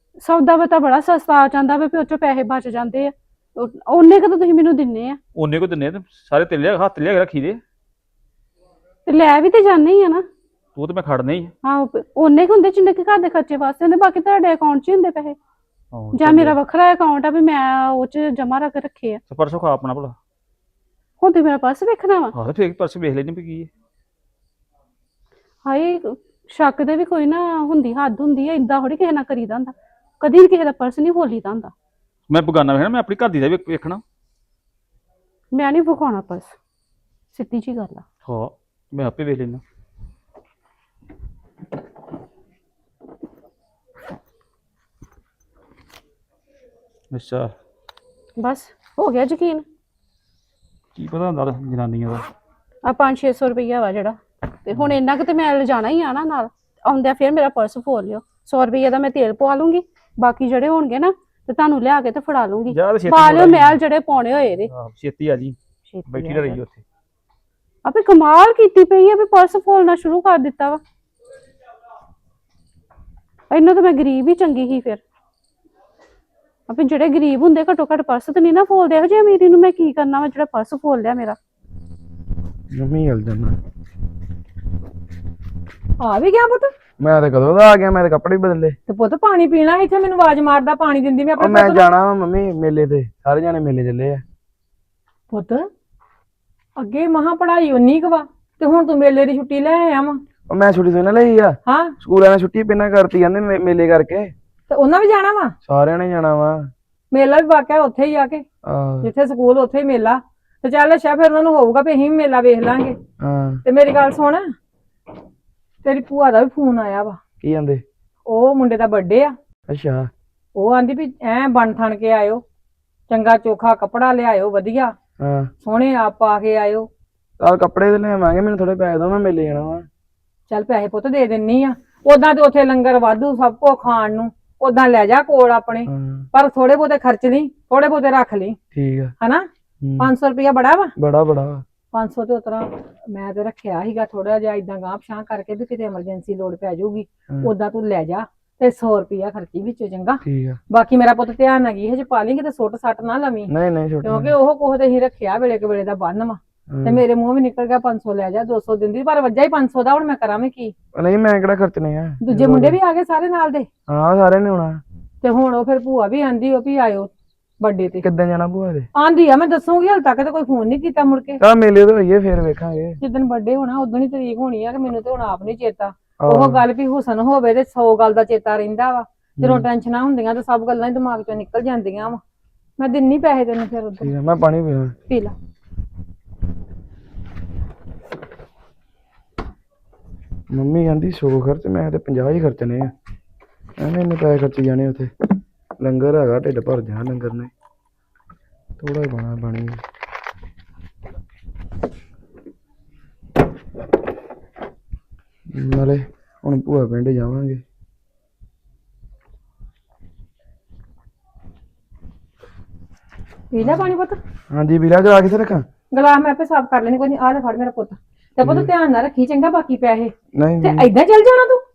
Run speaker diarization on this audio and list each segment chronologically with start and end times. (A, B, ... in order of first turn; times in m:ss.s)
0:00.2-0:05.2 A
0:05.3-0:07.6 B
0:09.0-0:10.2 A
0:10.7-0:11.5 B
0:11.6-0:15.4 A
0:15.9-0:16.6 B
0:16.1-0:19.2 A
0:19.3-0:20.2 B
0:21.2-0:22.3 A
0:22.3-0:23.7 B
0:25.6-0:31.7 A
0:32.3-0:34.0 B
0:35.5-0:36.6 A
0:37.3-0:38.0 A
0:38.2-0:39.6 B
0:47.1-0:47.5 B
0:48.4-0:49.6 A
0:50.9-0:52.3 B
0:52.8-1:04.7 A
1:02.7-1:03.8 B
1:04.7-1:06.8 B
1:05.8-1:06.6 A
1:07.8-1:10.8 A
1:13.5-1:15.0 A
1:16.7-1:21.4 A
1:22.7-1:23.6 C
1:26.0-1:26.7 D
1:27.0-1:28.8 C
1:28.9-1:31.8 D
1:31.4-1:34.2 C
1:35.3-1:35.6 D
1:36.8-1:40.2 D
1:40.5-1:44.3 C
1:41.6-1:41.9 D
1:44.7-1:45.5 D
1:45.6-1:46.7 C
1:47.1-1:48.4 D
1:48.6-1:49.1 C
1:49.0-1:53.0 D
1:53.2-1:53.6 C
1:53.6-1:54.4 D
1:55.8-1:57.2 D
1:57.4-1:57.8 C
1:58.2-1:59.3 D
1:59.7-2:00.1 C
2:00.6-2:02.4 D
2:03.1-2:04.9 D
2:05.2-2:05.5 C
2:05.6-2:06.9 D
2:07.4-2:09.8 C
2:10.5-2:18.6 D
2:15.9-2:16.3 C
2:18.7-2:19.1 C
2:19.2-2:19.4 D
2:19.8-2:20.1 C
2:20.0-2:20.9 D
2:21.0-2:21.6 C
2:21.9-2:33.5 D
2:30.2-2:30.6 C
2:33.5-2:34.3 C
2:34.0-2:40.7 D
2:36.7-2:37.0 C
2:40.9-2:42.8 C
2:42.2-2:43.7 D
2:43.9-2:44.8 C
2:45.2-2:48.0 D
2:48.0-2:48.9 C
2:49.0-2:51.4 D
2:51.4-2:53.0 C
2:53.0-3:02.2 D
2:56.2-2:56.6 C
2:59.4-2:59.6 C
3:02.8-3:04.1 D
3:04.0-3:05.0 C
3:05.1-3:05.3 D
3:10.5-3:12.9 C
3:13.8-3:15.1 C
3:15.8-3:17.5 C
3:18.8-3:19.8 C
3:25.5-3:27.6 C
3:33.5-3:34.2 D
3:34.5-3:35.6 C
3:35.9-3:41.6 D
3:38.4-3:38.7 C
3:40.3-3:40.9 C